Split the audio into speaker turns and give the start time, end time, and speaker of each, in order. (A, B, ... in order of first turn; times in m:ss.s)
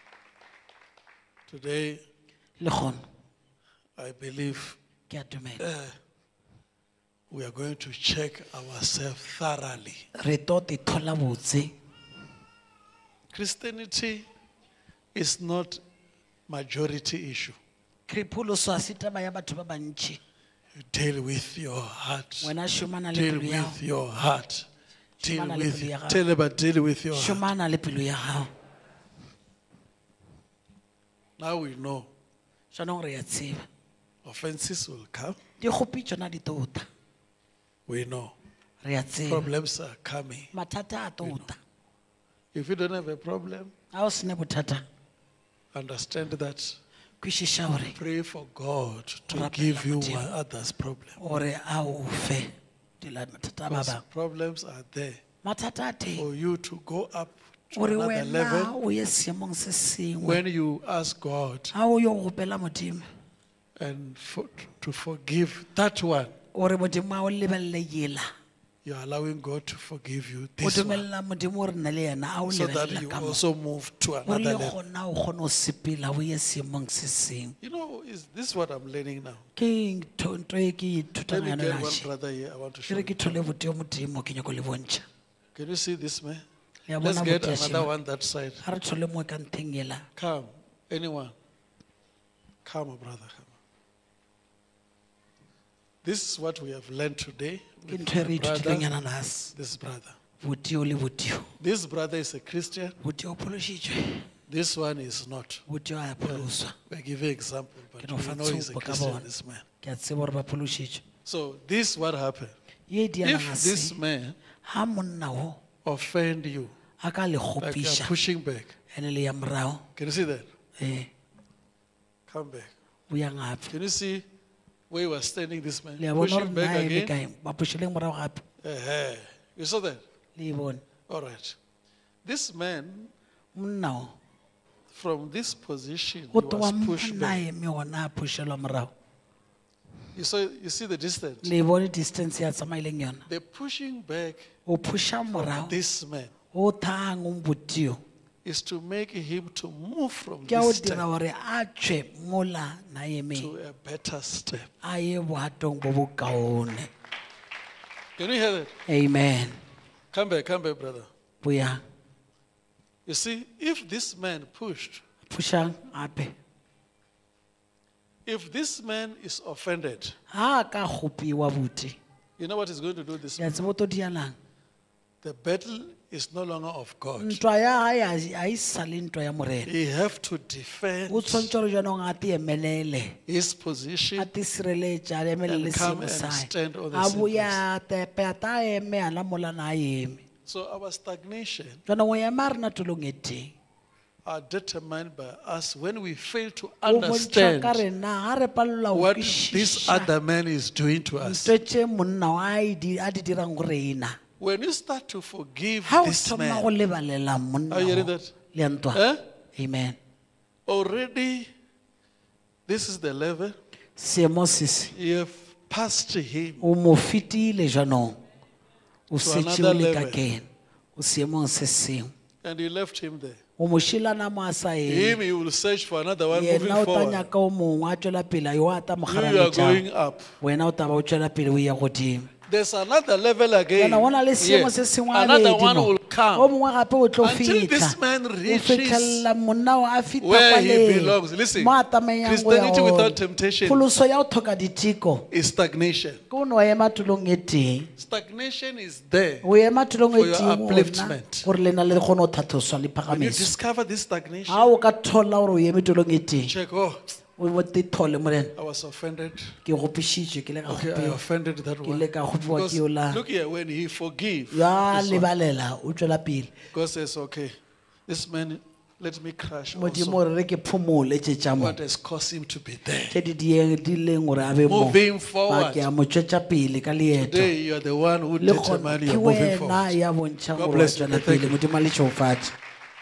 0:01.5-0:02.0 A
0:02.6-0:03.0 B
0:04.0-0:04.8 A
0:05.1-0:05.6 B
0:05.6-0:06.0 A
0:07.3-0:10.1 A
0:10.2-0:11.7 B
0:13.3-0:14.3 A
0:15.2-0:15.8 A
0:16.5-0:17.6 A
0:18.1-0:20.2 B
0:20.7-0:22.5 A
0:22.4-0:23.8 B
0:23.1-0:24.7 A
0:25.2-0:27.4 A
0:25.2-0:26.2 B
0:27.1-0:28.5 B
0:31.4-0:32.1 A
0:32.7-0:33.7 B
0:34.2-0:35.4 A
0:35.6-0:36.9 B
0:37.9-0:38.4 A
0:38.8-0:39.5 B
0:39.2-0:40.5 A
0:40.5-0:41.6 B
0:42.5-0:43.7 A
0:43.9-0:44.8 B
0:45.7-0:46.8 A
0:47.2-0:48.0 B
0:48.0-0:51.2 A
0:49.3-0:50.3 B
0:51.2-0:52.5 B
0:53.0-0:54.0 B
0:53.7-0:55.2 A
0:55.4-0:56.3 B
0:56.2-0:58.8 A
0:57.8-1:00.4 B
1:00.2-1:01.7 A
1:01.7-1:03.1 B
1:03.8-1:06.3 A
1:06.5-1:08.2 B
1:08.8-1:11.0 A
1:10.6-1:13.4 B
1:12.5-1:14.8 A
1:14.3-1:17.6 B
1:17.6-1:19.4 A
1:19.6-1:22.1 B
1:21.3-1:23.4 A
1:22.9-1:25.1 B
1:25.6-1:26.4 A
1:26.9-1:27.9 B
1:27.0-1:28.6 A
1:28.6-1:30.0 B
1:30.2-1:31.4 A
1:32.6-1:33.6 A
1:36.0-1:38.9 A
1:37.9-1:39.5 B
1:39.5-1:40.2 A
1:40.4-1:41.5 B
1:41.6-1:43.0 A
1:43.0-1:44.3 B
1:44.5-1:45.6 A
1:45.7-1:46.8 B
1:46.2-1:49.6 A
1:48.0-1:49.2 B
1:49.8-1:51.0 B
1:51.3-1:52.6 A
1:52.9-1:54.0 B
1:53.2-1:54.4 A
1:54.6-1:55.6 B
1:55.8-1:56.7 A
1:57.0-1:58.1 B
1:57.6-1:58.7 A
1:58.9-1:59.8 B
2:00.0-2:00.5 A
2:00.8-2:01.1 B
2:02.3-2:02.7 A
2:03.1-2:03.8 B
2:03.7-2:04.2 A
2:04.9-2:07.2 A
2:06.0-2:08.4 B
2:08.6-2:10.0 A
2:10.4-2:10.8 B
2:11.1-2:11.6 A
2:12.2-2:13.1 A
2:13.6-2:14.2 B
2:14.9-2:17.4 A
2:16.3-2:18.9 B
2:20.2-2:21.5 A
2:21.4-2:23.3 B
2:23.3-2:24.5 A
2:24.7-2:25.8 B
2:25.3-2:26.3 A
2:26.5-2:28.0 B
2:28.4-2:31.1 A
2:30.5-2:33.5 B
2:33.4-2:34.7 A
2:34.8-2:36.9 B
2:38.2-2:38.8 A
2:38.9-2:39.6 B
2:40.1-2:41.1 A
2:41.4-2:41.8 B
2:43.1-2:45.0 A
2:45.2-2:46.4 B
2:48.2-2:50.2 A
2:50.3-2:52.0 B
2:52.4-2:53.5 A
2:53.4-2:54.4 B
2:55.2-2:57.4 A
2:57.2-2:59.7 B
2:59.7-3:01.5 A
3:01.1-3:03.2 B
3:03.3-3:04.3 A
3:04.2-3:10.2 B
3:05.5-3:07.6 A
3:10.5-3:11.8 A
3:11.9-3:13.6 B
3:14.2-3:17.8 A
3:16.8-3:20.1 B
3:18.9-3:21.5 A
3:21.2-3:24.2 B
3:24.4-3:26.7 A
3:25.8-3:29.0 B
3:27.7-3:28.3 A
3:28.9-3:29.2 A
3:29.6-3:30.0 B
3:30.7-3:31.5 A
3:32.7-3:33.6 A
3:34.0-3:34.9 B
3:34.9-3:36.7 A
3:36.6-3:38.2 B
3:39.1-3:42.1 B
3:39.2-3:40.2 A
3:42.4-3:43.4 A
3:43.6-3:45.2 B
3:44.9-3:47.3 A
3:46.3-3:49.8 B
3:49.1-3:50.3 A
3:50.4-3:52.3 B
3:52.5-3:56.5 A
3:53.8-4:05.3 B
3:57.2-3:59.3 A
4:00.2-4:03.8 A
4:05.3-4:06.2 A
4:06.3-4:07.9 B
4:08.0-4:09.5 A
4:09.4-4:13.5 B
4:10.1-4:11.5 A
4:13.1-4:14.7 A
4:14.5-4:16.5 B
4:16.4-4:17.0 A
4:17.4-4:18.5 B
4:18.6-4:19.6 A
4:19.6-4:21.2 B
4:20.7-4:25.3 A
4:21.8-4:23.2 B
4:24.5-4:26.5 B
4:26.7-4:27.5 A
4:28.1-4:30.2 A
4:29.7-4:31.8 B
4:31.6-4:33.2 A
4:33.1-4:37.5 B
4:34.6-4:35.9 A
4:37.2-4:40.0 A
4:38.4-4:42.6 B
4:40.6-4:41.6 A